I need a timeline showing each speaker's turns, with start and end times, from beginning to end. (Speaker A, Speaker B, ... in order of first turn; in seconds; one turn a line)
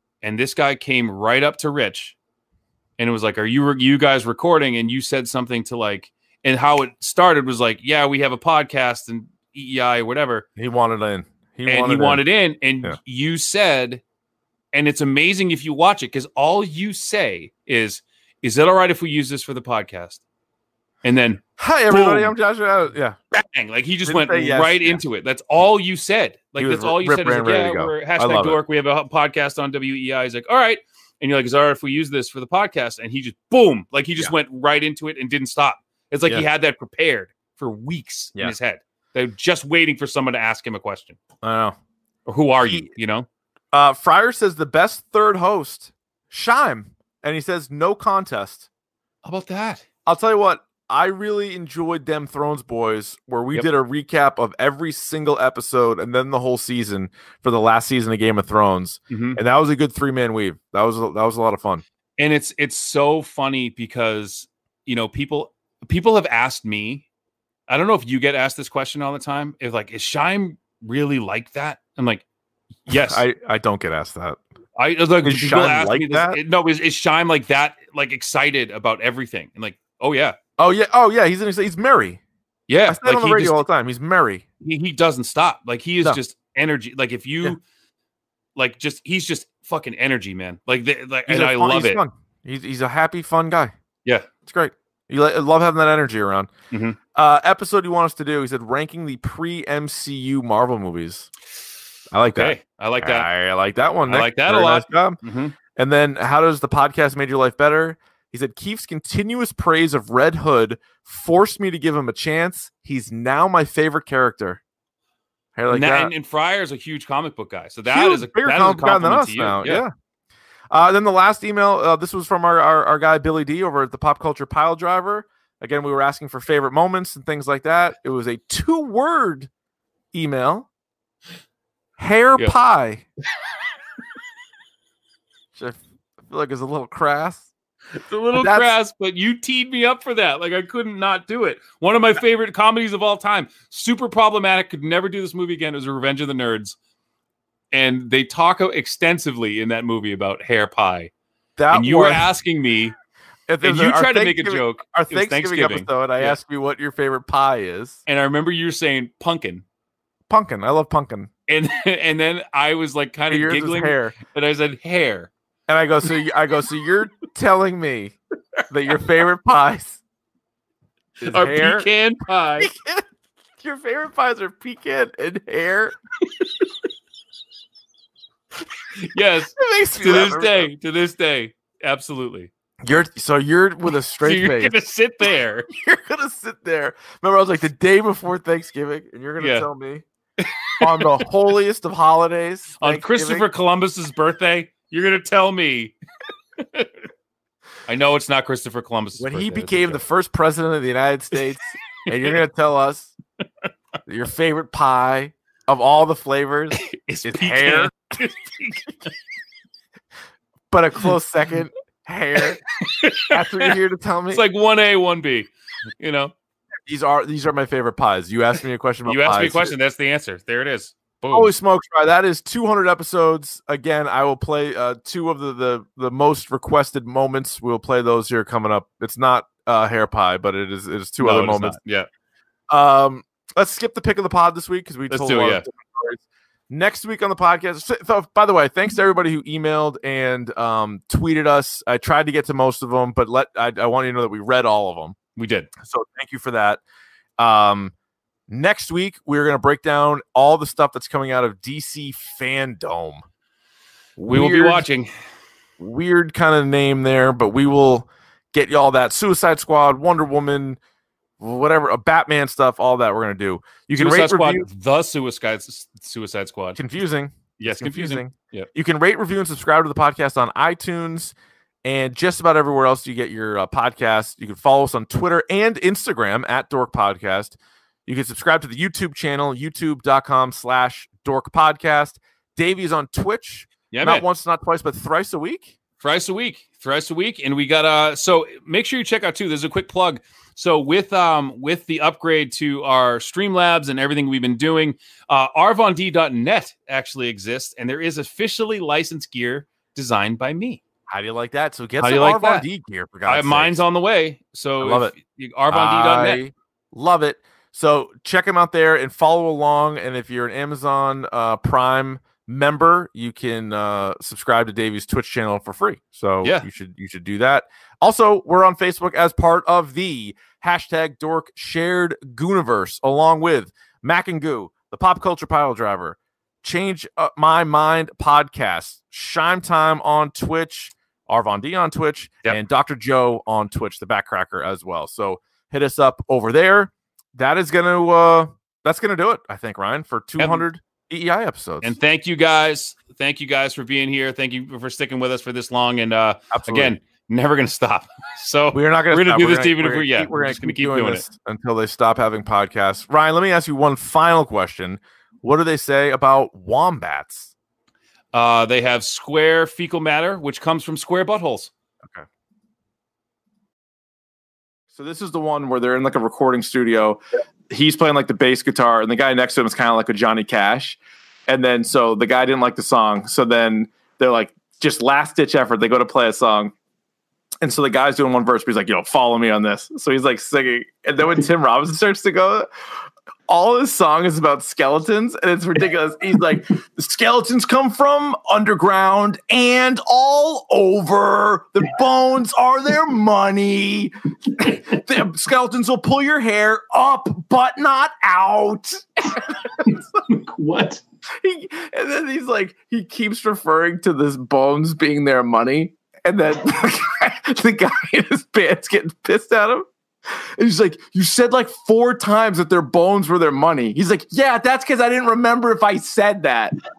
Speaker A: 0.2-2.2
Speaker A: 3.0-10.4
Speaker B: 10.6-12.2
Speaker A: 11.7-14.0
Speaker A: 14.7-20.2
Speaker A: 21.0-22.3
Speaker B: 21.6-23.2
Speaker A: 23.3-41.2
Speaker B: 24.1-25.0
Speaker B: 26.6-28.6
Speaker B: 41.4-41.8
Speaker A: 42.3-43.3
Speaker B: 42.6-42.9
Speaker B: 43.7-48.7
Speaker A: 49.2-49.8
Speaker B: 50.1-61.8
Speaker A: 59.1-59.4
Speaker A: 62.2-67.0
Speaker A: 67.7-72.2
Speaker A: 72.9-73.2
Speaker B: 72.9-74.4
Speaker A: 74.8-80.4
Speaker B: 75.2-76.4
Speaker B: 80.6-82.2
Speaker A: 82.7-83.6
Speaker B: 82.9-84.4
Speaker A: 84.6-87.6
Speaker A: 88.6-92.0
Speaker B: 91.3-93.7
Speaker B: 94.5-96.5
Speaker A: 96.7-97.0
Speaker B: 97.2-101.3
Speaker B: 102.1-105.2
Speaker A: 102.3-103.3
Speaker A: 104.1-105.6
Speaker B: 105.8-114.6
Speaker B: 115.6-116.1
Speaker A: 115.7-119.8
Speaker B: 117.9-119.9
Speaker B: 120.7-129.5
Speaker B: 130.1-130.7
Speaker B: 132.0-133.0
Speaker B: 135.6-137.5
Speaker A: 138.0-146.8
Speaker B: 138.3-138.7
Speaker A: 147.7-151.1
Speaker B: 151.6-152.3
Speaker A: 151.7-152.9
Speaker B: 153.5-158.0
Speaker A: 153.6-156.4
Speaker A: 158.1-159.6
Speaker B: 160.3-161.3
Speaker A: 161.5-165.3
Speaker B: 163.3-164.2
Speaker B: 165.7-168.2
Speaker B: 168.7-170.0
Speaker B: 171.2-171.9
Speaker A: 171.2-172.7
Speaker B: 172.6-173.1
Speaker B: 173.6-176.0
Speaker A: 178.9-182.5
Speaker B: 179.6-180.7
Speaker B: 182.8-184.7
Speaker A: 184.2-185.7
Speaker B: 185.7-190.1
Speaker A: 189.4-189.7
Speaker A: 190.4-191.2
Speaker B: 190.8-193.5
Speaker A: 192.8-195.9
Speaker A: 196.6-196.9
Speaker A: 197.9-200.0
Speaker B: 199.2-203.1
Speaker A: 202.1-202.4
Speaker B: 204.1-207.9
Speaker A: 206.8-208.9
Speaker B: 210.7-212.6
Speaker A: 212.8-213.7
Speaker B: 213.3-214.4
Speaker A: 214.3-215.5
Speaker A: 216.0-216.3
Speaker B: 216.9-219.8
Speaker A: 219.1-221.5
Speaker B: 221.3-231.8
Speaker A: 231.2-232.1
Speaker B: 232.7-245.2
Speaker A: 235.1-235.7
Speaker A: 245.4-245.7
Speaker B: 245.8-246.8
Speaker B: 247.4-247.9
Speaker B: 248.5-253.2
Speaker B: 254.2-254.9
Speaker A: 254.3-255.1
Speaker B: 255.8-260.8
Speaker B: 261.4-264.7
Speaker A: 264.0-266.8
Speaker B: 266.8-271.3
Speaker A: 267.6-268.7
Speaker B: 271.9-285.7
Speaker A: 283.9-284.3
Speaker A: 286.0-300.8
Speaker B: 301.1-303.8
Speaker A: 302.0-302.6
Speaker A: 303.3-306.4
Speaker B: 304.8-305.1
Speaker B: 305.7-342.0
Speaker A: 340.4-340.6
Speaker A: 341.8-351.3
Speaker B: 346.5-347.0
Speaker B: 348.7-357.5
Speaker A: 358.3-361.7
Speaker B: 364.9-376.7
Speaker B: 377.6-382.7
Speaker B: 383.5-400.0
Speaker A: 399.9-401.0
Speaker B: 401.4-416.8